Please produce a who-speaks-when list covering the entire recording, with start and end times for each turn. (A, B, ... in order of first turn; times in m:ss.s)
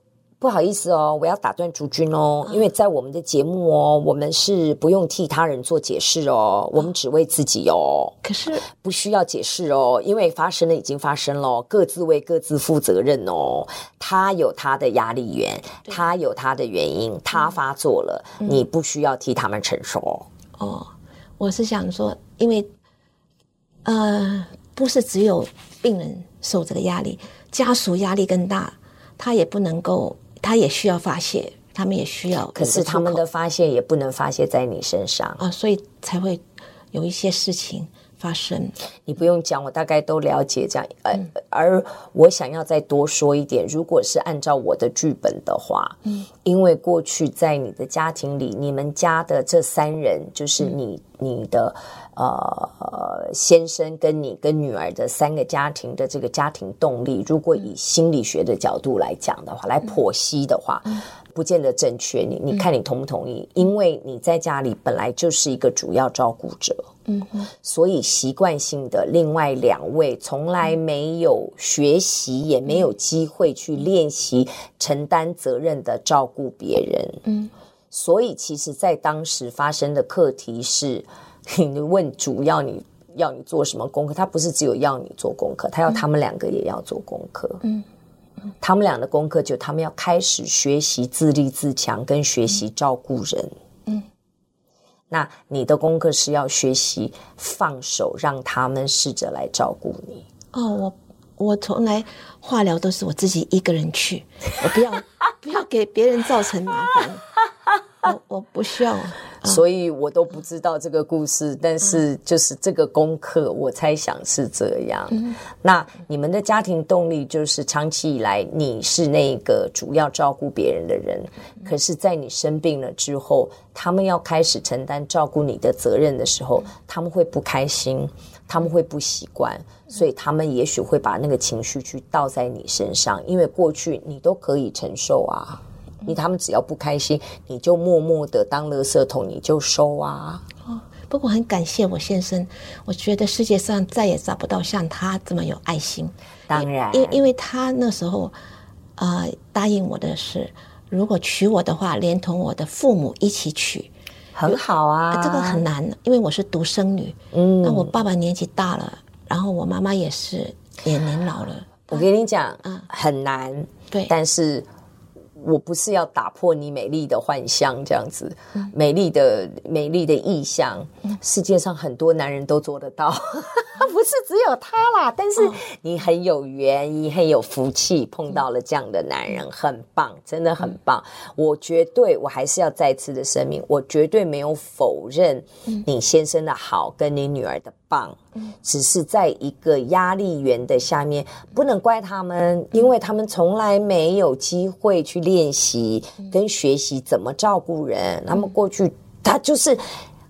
0:00.4-0:08.1 A
0:08.2-0:08.7 B
0:08.7-0:20.3 A
0:20.6-0:22.7 B
0:23.8-0:33.2 B
0:32.6-0:35.4 A
0:35.4-0:38.8 B
0:39.1-1:06.9 A
1:07.1-1:07.5 B
1:07.6-1:17.2 A
1:17.2-1:17.5 B
1:17.9-1:27.6 A
1:28.6-1:33.5 A
1:35.1-1:40.3 A
1:40.5-1:47.3 B
1:48.0-1:49.6 B
1:49.4-2:20.4 A
2:20.7-2:28.4 B
2:26.5-2:27.2 A
2:29.0-2:33.9 B
2:34.4-2:35.6 A
2:35.1-2:42.1 B
2:37.3-2:38.0 A
2:41.9-2:44.7 A
2:45.4-3:19.9 A